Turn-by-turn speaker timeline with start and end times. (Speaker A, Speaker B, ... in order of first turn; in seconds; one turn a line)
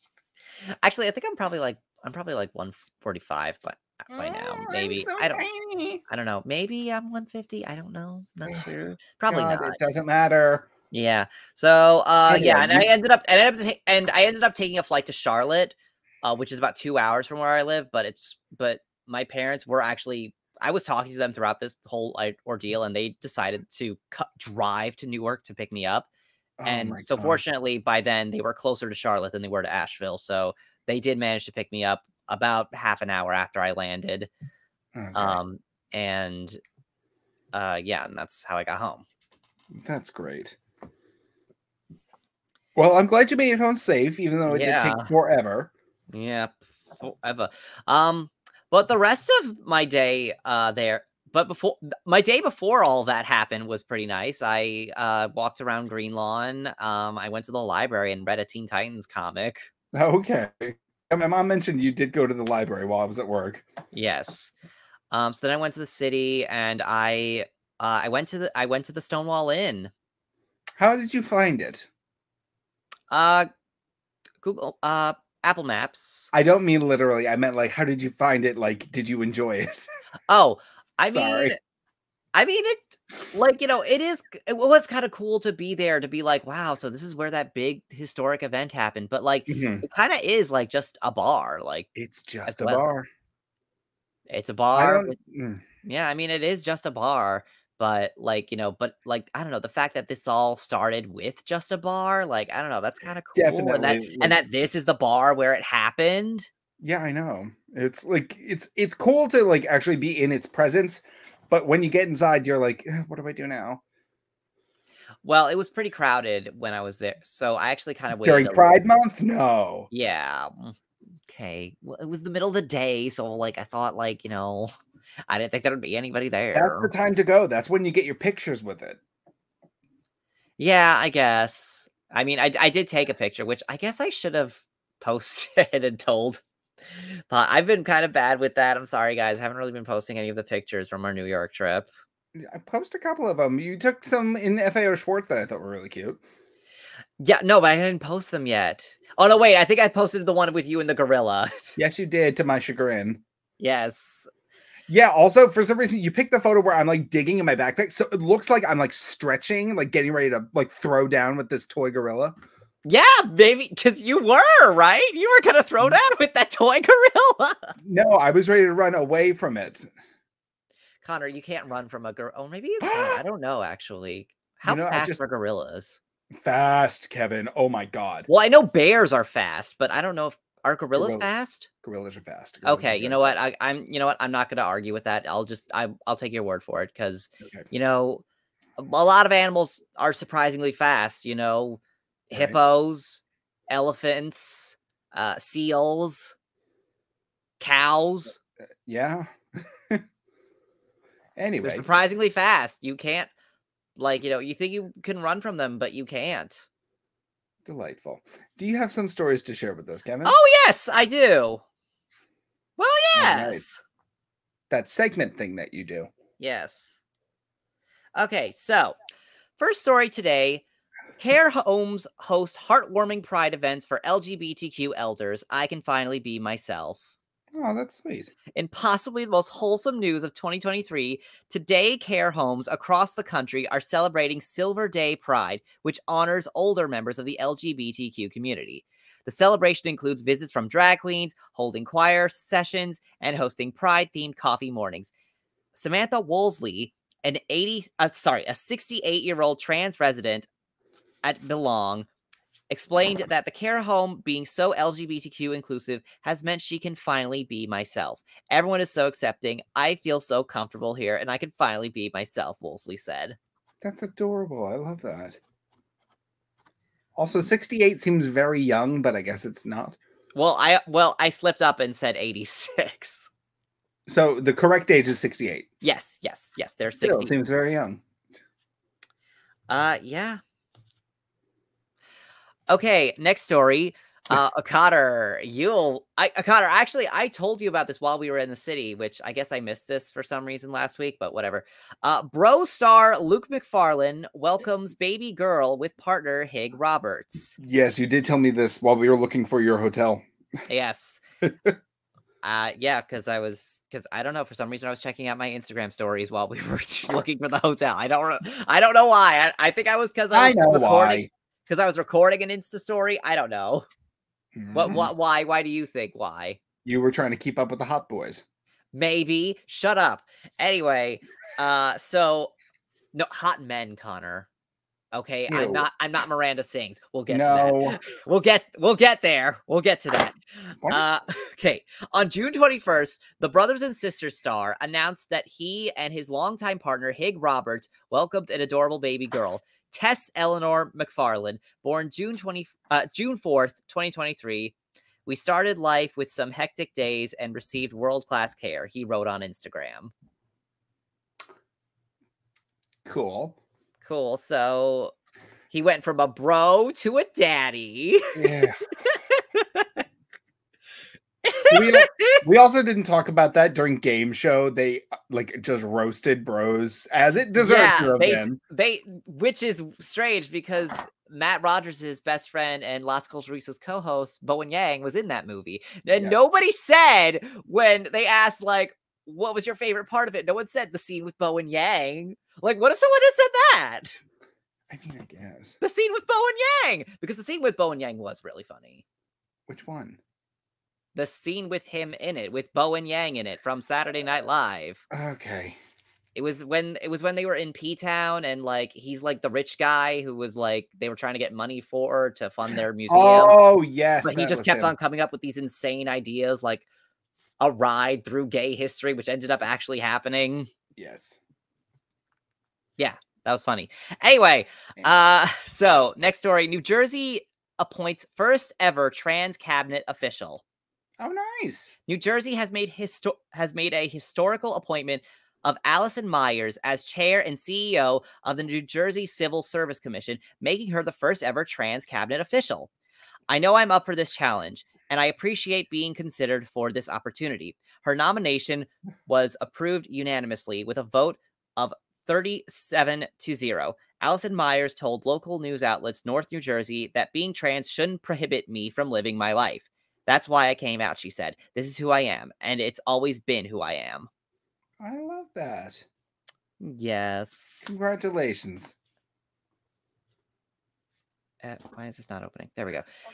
Speaker A: 0.7-5.4
Speaker B: 4.1-6.0
Speaker A: 6.1-9.8
Speaker B: 9.3-10.7
Speaker A: 10.9-26.1
Speaker B: 12.3-12.9
Speaker B: 26.6-27.4
Speaker A: 26.6-34.3
Speaker B: 34.9-35.4
Speaker A: 35.1-36.6
Speaker A: 37.5-39.0
Speaker B: 39.7-40.6
Speaker B: 42.8-45.7
Speaker A: 44.5-45.1
Speaker A: 46.1-59.7
Speaker B: 59.9-63.6
Speaker A: 63.9-64.5
Speaker A: 65.1-69.9
Speaker B: 70.8-71.9
Speaker A: 73.1-73.5
Speaker A: 74.4-76.3
Speaker B: 76.3-79.8
Speaker A: 80.3-81.6
Speaker B: 81.1-81.5
Speaker A: 82.3-91.9
Speaker B: 89.5-89.8
Speaker B: 91.9-93.1
Speaker A: 92.5-92.8
Speaker A: 94.3-95.1
Speaker B: 94.7-95.6
Speaker A: 95.8-106.5
Speaker B: 103.3-104.4
Speaker B: 106.8-113.8
Speaker A: 115.2-118.8
Speaker B: 118.2-119.9
Speaker A: 119.9-120.8
Speaker A: 121.3-124.7
Speaker A: 125.3-126.9
Speaker B: 126.5-129.0
Speaker A: 130.6-136.4
Speaker A: 137.0-141.9
Speaker B: 142.3-146.2
Speaker A: 147.2-151.8
Speaker B: 151.8-153.2
Speaker A: 153.6-154.3
Speaker B: 154.9-162.3
Speaker A: 162.8-167.7
Speaker B: 167.8-169.9
Speaker A: 171.0-176.0
Speaker B: 172.8-173.2
Speaker B: 174.7-175.2
Speaker B: 176.3-178.3
Speaker A: 178.3-181.7
Speaker B: 180.9-181.2
Speaker B: 181.8-183.4
Speaker A: 182.6-188.2
Speaker A: 188.8-196.3
Speaker A: 197.6-198.4
Speaker B: 198.8-199.3
Speaker B: 201.4-201.9
Speaker A: 201.6-203.3
Speaker A: 204.0-206.6
Speaker B: 207.6-210.3
Speaker A: 210.2-211.6
Speaker A: 212.8-213.8
Speaker B: 213.1-213.6
Speaker B: 214.7-216.1
Speaker A: 216.4-217.0
Speaker A: 218.1-219.0
Speaker A: 219.6-220.6
Speaker A: 221.2-227.0
Speaker B: 227.5-228.3
Speaker A: 228.5-245.1
Speaker A: 245.7-250.5
Speaker A: 251.2-252.1
Speaker A: 252.7-263.4
Speaker B: 263.8-265.4
Speaker B: 267.1-270.0
Speaker A: 270.3-273.3
Speaker B: 274.1-275.7
Speaker A: 275.8-277.3
Speaker B: 277.0-278.0
Speaker A: 279.7-280.4
Speaker A: 282.7-297.6
Speaker B: 297.6-300.2
Speaker A: 300.7-301.2
Speaker B: 301.4-301.8
Speaker A: 302.4-313.9
Speaker B: 310.3-311.3
Speaker B: 314.6-315.1
Speaker A: 314.7-316.6
Speaker B: 316.8-318.4
Speaker A: 318.9-322.5
Speaker A: 323.1-324.5
Speaker A: 325.1-330.4
Speaker B: 325.5-325.9
Speaker B: 327.3-328.0
Speaker A: 330.9-344.7
Speaker A: 345.2-350.1
Speaker B: 353.1-353.6
Speaker A: 354.0-355.1
Speaker A: 355.7-358.5
Speaker B: 358.3-358.8
Speaker A: 359.1-360.0
Speaker A: 361.4-362.4
Speaker B: 361.7-368.6
Speaker A: 367.6-384.1
Speaker B: 384.9-385.8
Speaker A: 385.8-389.0
Speaker B: 389.7-390.2
Speaker A: 391.1-395.0
Speaker B: 395.1-395.8
Speaker A: 396.3-403.6
Speaker B: 403.1-404.9
Speaker A: 404.2-406.8
Speaker A: 407.6-410.7
Speaker B: 410.9-411.4
Speaker A: 413.0-420.6
Speaker B: 421.2-421.9
Speaker A: 422.1-432.9
Speaker A: 433.5-454.3
Speaker B: 455.0-456.0
Speaker A: 456.8-457.9
Speaker B: 457.9-458.9
Speaker A: 461.6-463.1